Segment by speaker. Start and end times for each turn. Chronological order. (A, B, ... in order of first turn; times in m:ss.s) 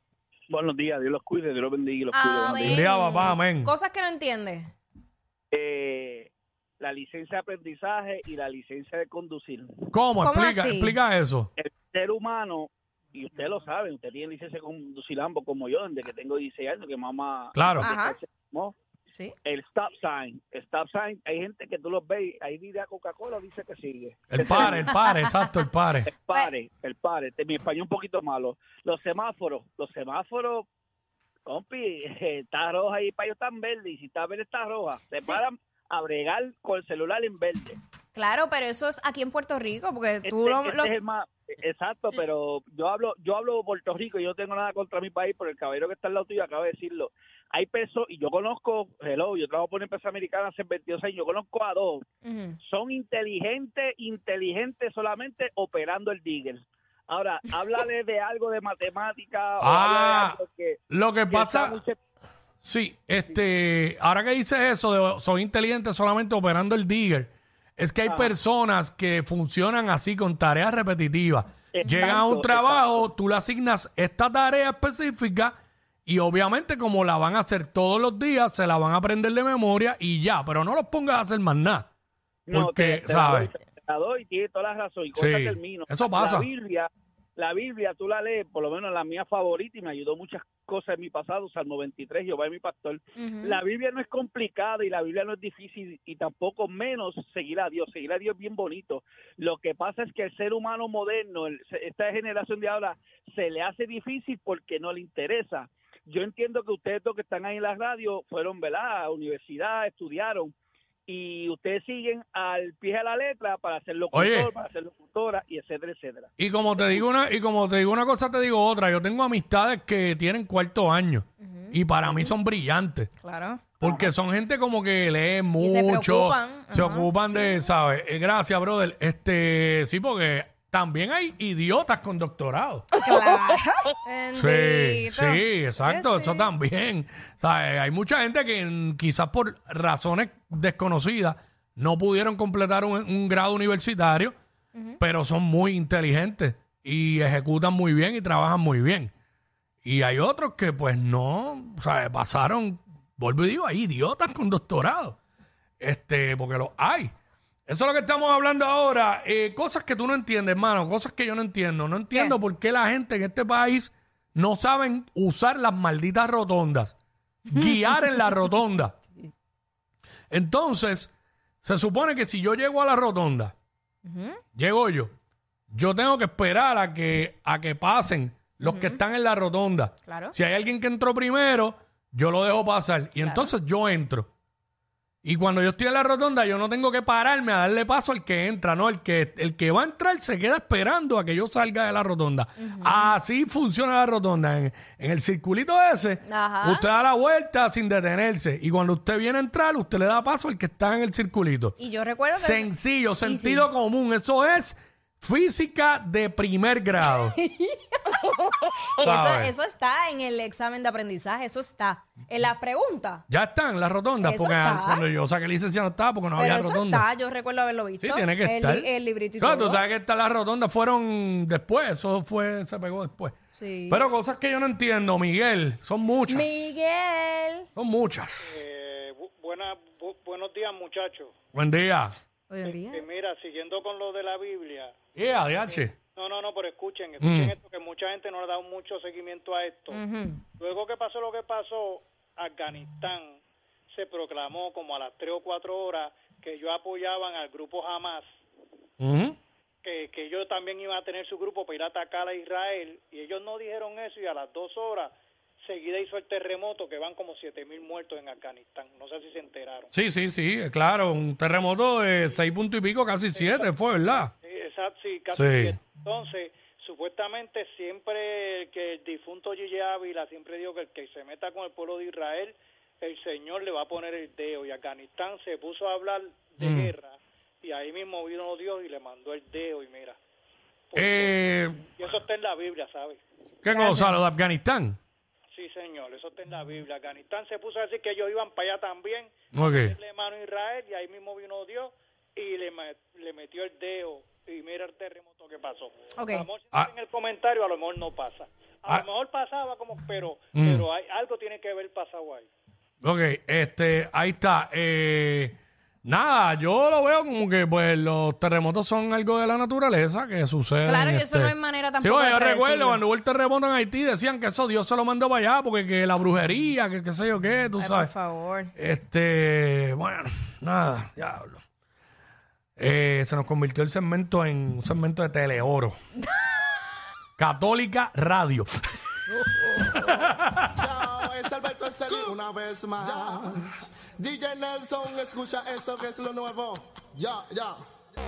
0:00.5-0:02.9 A
0:02.1-0:04.7 B
0:02.6-0:03.7 C
0:05.5-0:09.9 A
0:09.9-0:11.5 C
0:10.2-0:11.0 B
0:11.6-0:18.8 A
0:17.6-0:17.9 C
0:17.6-0:18.2 B
0:19.4-0:25.1 A
0:24.3-0:26.1 C
0:26.1-0:30.7 A
0:31.5-0:37.8 A
0:35.2-0:35.4 B
0:38.2-0:41.0 B
0:40.2-0:52.0 A
0:52.2-0:52.6 B
0:52.7-1:00.8 A
0:59.6-1:01.8 C
1:01.3-1:02.0 A
1:02.6-1:21.9 C
1:08.0-1:08.3 A
1:11.7-1:13.1 A
1:22.5-1:50.5 A
1:22.5-1:23.5 C
1:25.1-1:26.5 C
1:33.2-1:33.6 B
1:51.1-1:56.3 A
1:54.1-1:54.5 C
1:56.4-2:03.1 C
2:01.4-2:02.3 B
2:03.2-2:03.6 B
2:03.8-2:12.8 C
2:03.8-2:04.1 A
2:05.6-2:07.1 B
2:12.9-2:16.5 B
2:14.4-2:24.4 C
2:25.0-2:29.1 C
2:29.8-2:35.2 C
2:35.8-2:37.1 C
2:37.7-2:47.0 C
2:42.1-2:42.4 B
2:47.5-2:49.0 C
2:50.3-2:51.1 C
2:51.6-2:53.6 C
2:54.0-2:54.4 B
2:54.6-2:55.1 C
2:55.7-3:04.3 C
2:58.6-2:59.0 B
3:00.1-3:00.4 B
3:03.2-3:03.5 B
3:05.2-3:21.8 C
3:12.6-3:13.2 B
3:16.2-3:16.9 B
3:21.8-3:22.7 B
3:22.4-3:27.4 C
3:23.2-3:23.7 B
3:27.0-3:33.2 B
3:29.0-3:29.5 C
3:33.3-3:37.1 C
3:34.2-3:35.1 B
3:36.4-3:39.8 B
3:38.0-3:43.4 C
3:43.6-3:44.0 B
3:43.9-3:46.5 C
3:46.3-3:47.7 B
3:47.8-3:48.6 C
3:48.4-3:51.3 D
3:51.5-3:52.2 C
3:52.5-3:53.0 B
3:52.6-3:54.9 D
3:55.2-3:55.9 C
3:55.9-4:00.0 D
3:57.2-3:57.6 C
3:59.9-4:00.4 B
4:00.6-4:03.4 D
4:03.9-4:08.3 D
4:09.0-4:09.4 C
4:09.8-4:19.9 D
4:19.9-4:24.3 C
4:23.3-4:23.7 D
4:24.3-4:40.2 D
4:25.3-4:25.8 C
4:36.6-4:36.9 C
4:40.9-4:41.3 D
4:41.0-4:41.8 C
4:42.0-4:43.2 D
4:43.6-4:45.0 C
4:43.7-4:44.2 B
4:45.5-5:02.5 D
4:49.5-4:50.0 C
4:56.2-4:56.5 B
5:00.6-5:00.9 C
5:03.0-5:18.1 C
5:10.8-5:13.0 B
5:17.8-5:18.7 B
5:18.8-5:21.6 C
5:22.8-5:26.0 C
5:27.4-5:28.7 C
5:30.0-5:30.8 C
5:31.0-5:37.8 E